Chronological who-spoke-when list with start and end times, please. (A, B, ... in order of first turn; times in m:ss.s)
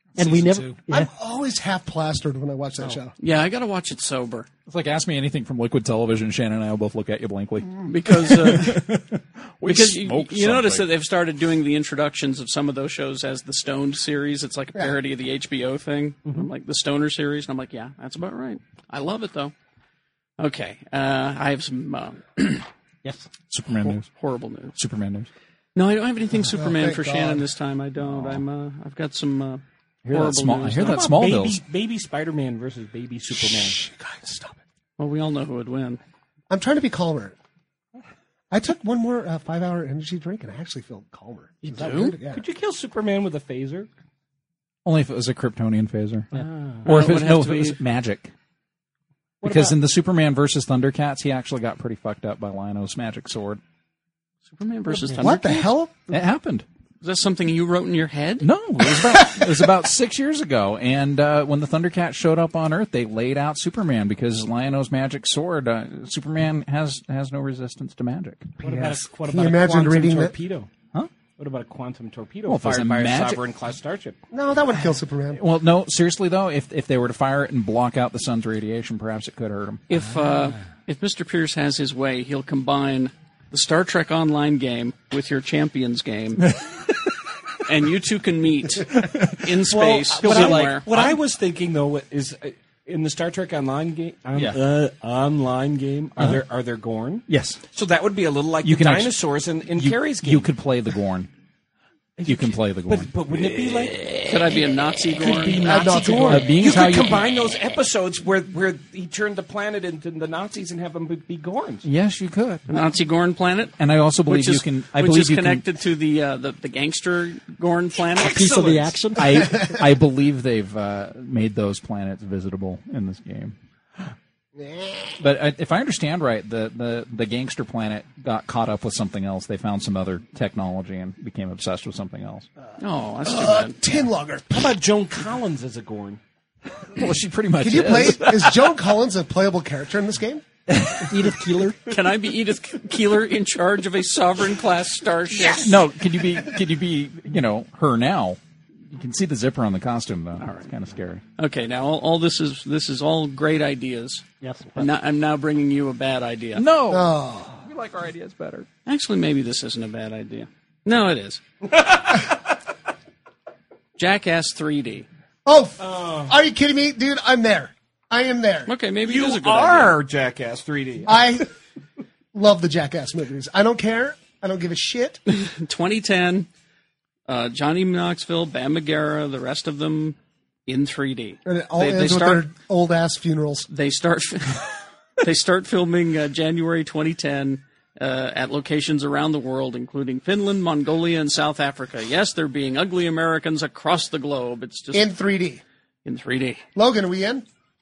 0:00.2-0:00.8 A
0:00.2-0:01.1 B
0:00.9-0:03.1 C
0:03.2-0:04.5 D
0:04.7-0:10.9 A
0:07.8-0:08.9 D
0:09.6-0:19.5 D
0:20.4-0:22.7 D
0:23.5-0:24.1 A
0:24.1-0:24.7 D
0:24.8-0:25.3 A
0:25.8-0:31.1 D
0:26.4-0:27.4 C
0:30.0-0:31.6 A
0:30.8-0:33.8 E
0:33.3-0:34.6 C
0:35.0-0:36.0 D
0:36.5-0:37.4 C
0:38.5-0:42.4 C
0:41.6-0:42.2 D
0:42.3-0:43.9 E
0:44.8-0:46.3 A
0:46.8-0:47.8 D
0:46.9-0:48.3 A
0:49.4-0:49.7 B
0:49.4-0:53.6 A
0:54.5-0:55.7 D
0:54.9-0:55.4 B
0:55.2-0:56.1 C
0:56.1-0:56.7 A
0:57.0-0:58.5 D
0:58.4-1:08.5 A
1:08.6-1:10.7 E
1:08.6-1:10.4 C
1:11.4-1:14.2 E
1:12.5-1:13.4 A
1:14.3-1:15.4 C
1:15.4-1:19.8 A
1:19.9-1:26.5 D
1:27.6-1:30.9 D
1:29.0-1:29.4 A
1:29.8-1:40.5 E
1:30.2-1:31.2 A
1:37.3-1:37.6 A
1:38.6-1:39.2 A
1:39.8-1:41.3 A
1:42.2-1:44.2 E
1:42.2-1:44.2 A
1:44.3-1:46.0 D
1:45.2-1:51.9 E
1:45.6-1:46.9 C
1:46.3-1:47.3 A
1:51.8-1:52.7 A
1:52.7-1:58.7 D
1:53.8-1:55.7 A
1:58.2-1:59.6 B
1:59.2-2:03.6 A
2:04.6-2:05.2 C
2:05.2-2:12.5 A
2:12.8-2:13.8 D
2:13.2-2:14.7 C
2:14.5-2:16.2 E
2:17.0-2:18.7 A
2:17.6-2:20.4 C
2:20.8-2:21.1 A
2:21.0-2:21.8 B
2:21.9-2:25.8 D
2:25.4-2:31.2 A
2:30.4-2:30.7 D
2:31.4-2:34.2 D
2:34.4-2:34.9 B
2:34.8-2:36.6 D
2:36.6-2:38.7 A
2:36.9-2:37.6 C
2:38.9-2:41.4 D
2:44.0-2:45.1 D
2:45.5-2:48.7 C
2:45.8-2:46.3 E
2:48.7-2:50.0 D
2:49.0-2:51.3 E
2:51.0-2:51.5 C
2:52.3-2:55.2 C
2:55.3-2:56.5 D
2:57.3-3:02.4 D
3:01.5-3:03.7 C
3:03.7-3:04.6 D
3:05.2-3:15.1 D
3:14.9-3:15.6 C
3:16.0-3:16.6 D
3:16.8-3:17.4 C